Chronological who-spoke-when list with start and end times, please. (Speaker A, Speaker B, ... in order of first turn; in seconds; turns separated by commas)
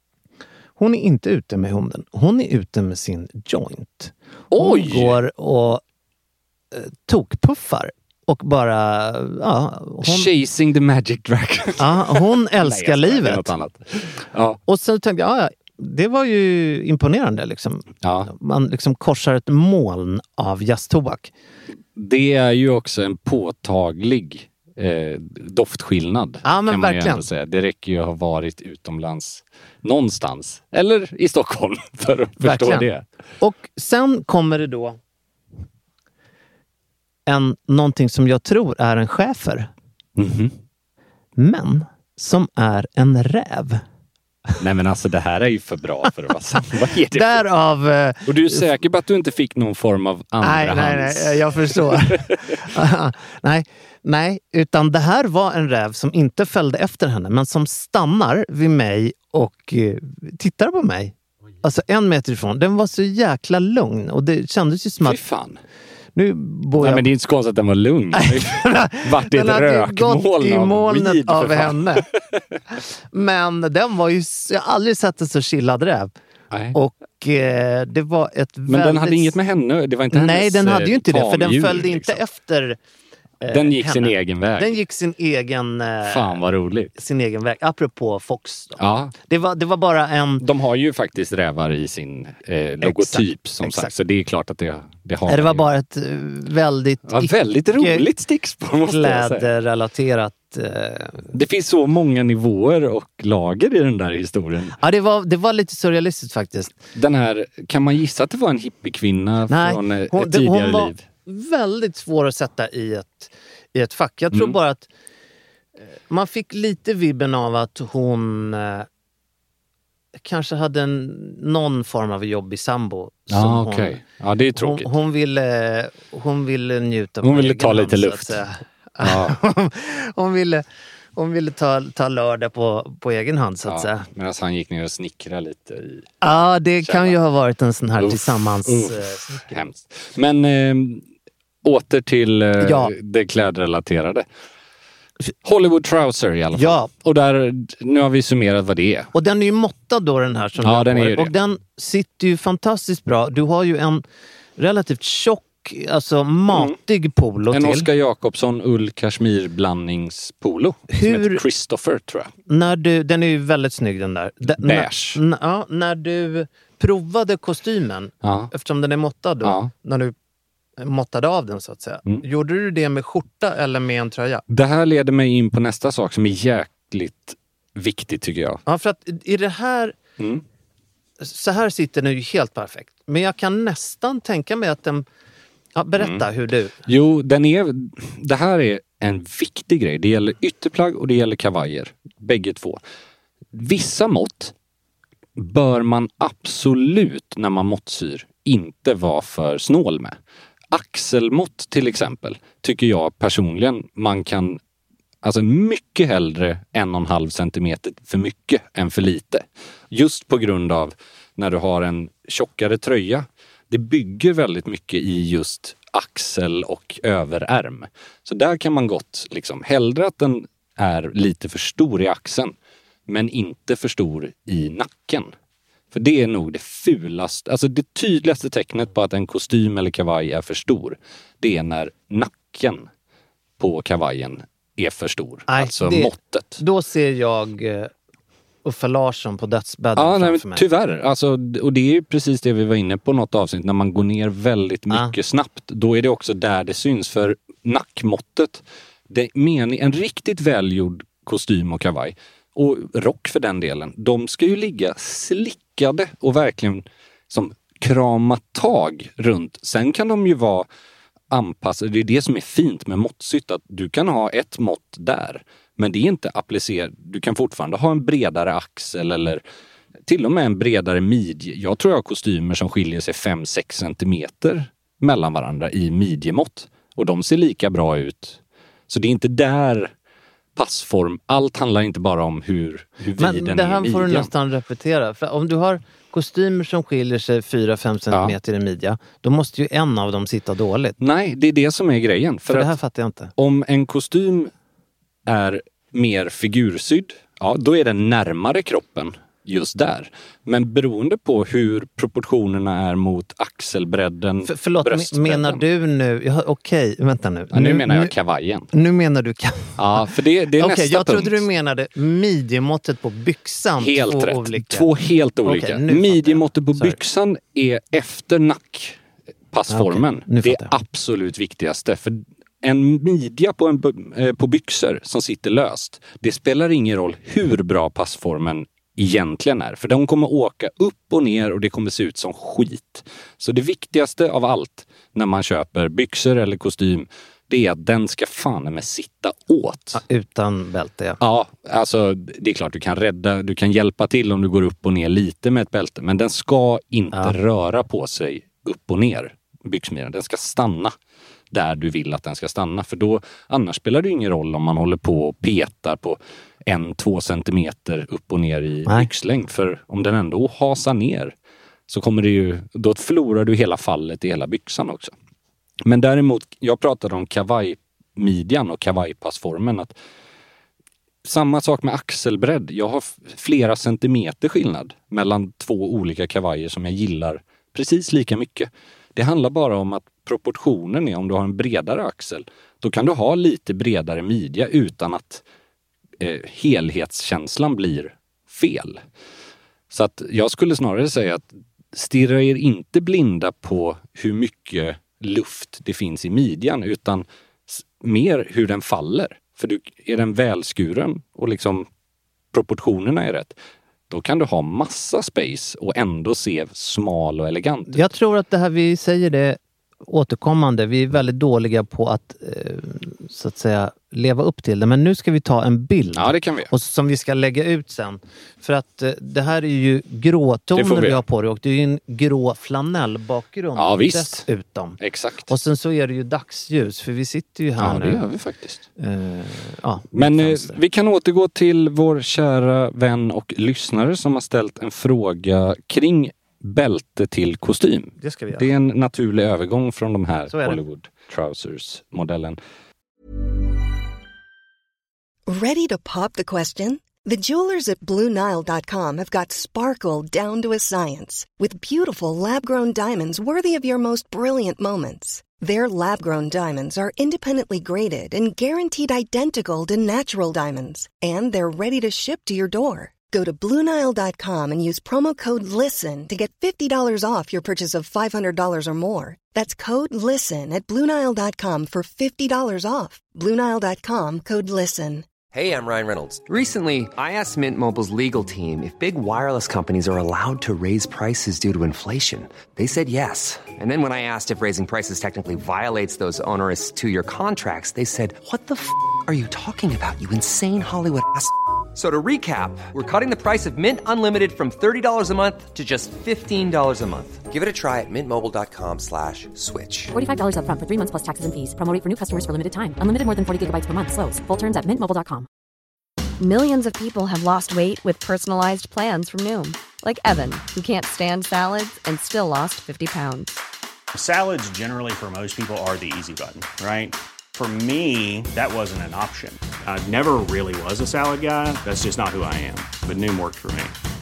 Speaker A: 0.8-5.8, Speaker B: 4.5-5.2, Speaker A: 6.7-10.3, Speaker B: 10.0-14.6, Speaker A: 11.8-13.5, Speaker A: 14.7-21.3, Speaker B: 18.0-18.3, Speaker B: 21.9-33.1, Speaker A: 26.4-27.2, Speaker A: 32.4-32.9, Speaker A: 33.4-35.0, Speaker A: 37.3-39.7, Speaker B: 40.2-40.5, Speaker A: 41.4-43.8, Speaker B: 44.6-47.4, Speaker A: 47.1-48.7, Speaker B: 48.3-52.6, Speaker A: 50.4-65.2, Speaker B: 65.0-65.6, Speaker A: 66.2-67.0, Speaker B: 66.8-72.4, Speaker A: 68.2-72.0, Speaker A: 73.1-76.1, Speaker B: 76.5-76.8, Speaker A: 76.7-79.3, Speaker B: 78.7-82.2, Speaker A: 80.1-82.8, Speaker A: 83.4-86.4, Speaker B: 83.5-84.8, Speaker B: 86.0-87.0, Speaker A: 87.0-90.5, Speaker B: 88.8-89.1, Speaker B: 90.4-95.7, Speaker A: 92.8-93.9, Speaker A: 95.3-98.0, Speaker B: 97.1-99.5, Speaker A: 98.9-101.3, Speaker B: 101.3-104.8, Speaker A: 104.8-106.8, Speaker B: 107.0-111.0, Speaker A: 109.5-114.9, Speaker A: 116.1-118.9, Speaker A: 120.2-124.0, Speaker B: 123.3-124.9, Speaker A: 124.6-130.6, Speaker B: 127.2-128.4, Speaker B: 129.0-129.4, Speaker A: 131.2-134.1, Speaker B: 133.7-136.1, Speaker A: 136.2-139.6, Speaker B: 136.8-137.2, Speaker B: 138.0-141.0, Speaker B: 141.6-144.3, Speaker A: 142.6-142.9, Speaker B: 145.4-149.1, Speaker A: 146.5-146.9, Speaker A: 149.1-154.0, Speaker B: 150.6-151.3, Speaker A: 154.6-157.9, Speaker B: 156.5-156.8, Speaker B: 157.5-162.3, Speaker A: 160.9-161.4, Speaker A: 162.5-170.2, Speaker B: 164.5-165.2, Speaker B: 168.2-168.5, Speaker B: 169.4-169.7, Speaker A: 170.8-174.4, Speaker B: 174.5-178.6, Speaker A: 178.7-179.9, Speaker B: 180.2-180.4, Speaker A: 181.2-185.1, Speaker A: 185.8-186.8, Speaker B: 186.0-186.3, Speaker B: 186.9-192.8, Speaker B: 193.5-194.5, Speaker B: 195.4-200.2, Speaker B: 200.7-204.6, Speaker B: 205.2-222.6, Speaker B: 223.1-225.3, Speaker B: 225.9-232.9, Speaker B: 233.6-236.6, Speaker A: 235.5-237.9, Speaker A: 238.7-240.7, Speaker B: 240.0-260.7, Speaker B: 261.3-269.4, Speaker B: 270.1-279.9, Speaker B: 280.6-284.3, Speaker A: 283.2-291.0, Speaker B: 291.0-292.8, Speaker A: 292.5-293.3, Speaker B: 293.4-294.5, Speaker B: 295.3-305.6, Speaker A: 304.4-308.1, Speaker B: 307.5-308.7, Speaker A: 308.7-310.0, Speaker B: 309.8-311.4, Speaker A: 310.6-314.9, Speaker B: 313.8-319.0, Speaker A: 315.4-317.0, Speaker B: 319.5-340.0, Speaker A: 319.7-320.7, Speaker A: 339.9-341.2, Speaker B: 341.2-350.9, Speaker B: 351.5-361.3, Speaker B: 361.9-365.1, Speaker B: 365.8-370.0, Speaker B: 371.2-385.4, Speaker B: 386.2-389.0, Speaker B: 389.9-401.9, Speaker B: 402.5-403.6, Speaker B: 404.1-408.1, Speaker A: 407.9-428.2, Speaker B: 416.1-416.7, Speaker B: 420.7-421.2, Speaker B: 423.8-424.5, Speaker B: 425.0-425.5, Speaker B: 427.8-428.8, Speaker A: 429.0-430.8, Speaker B: 430.1-442.6, Speaker A: 438.2-438.7, Speaker A: 440.5-440.8, Speaker C: 445.5-475.3, Speaker D: 475.5-500.1, Speaker E: 500.1-505.5, Speaker F: 506.4-513.5, Speaker G: 514.1-523.9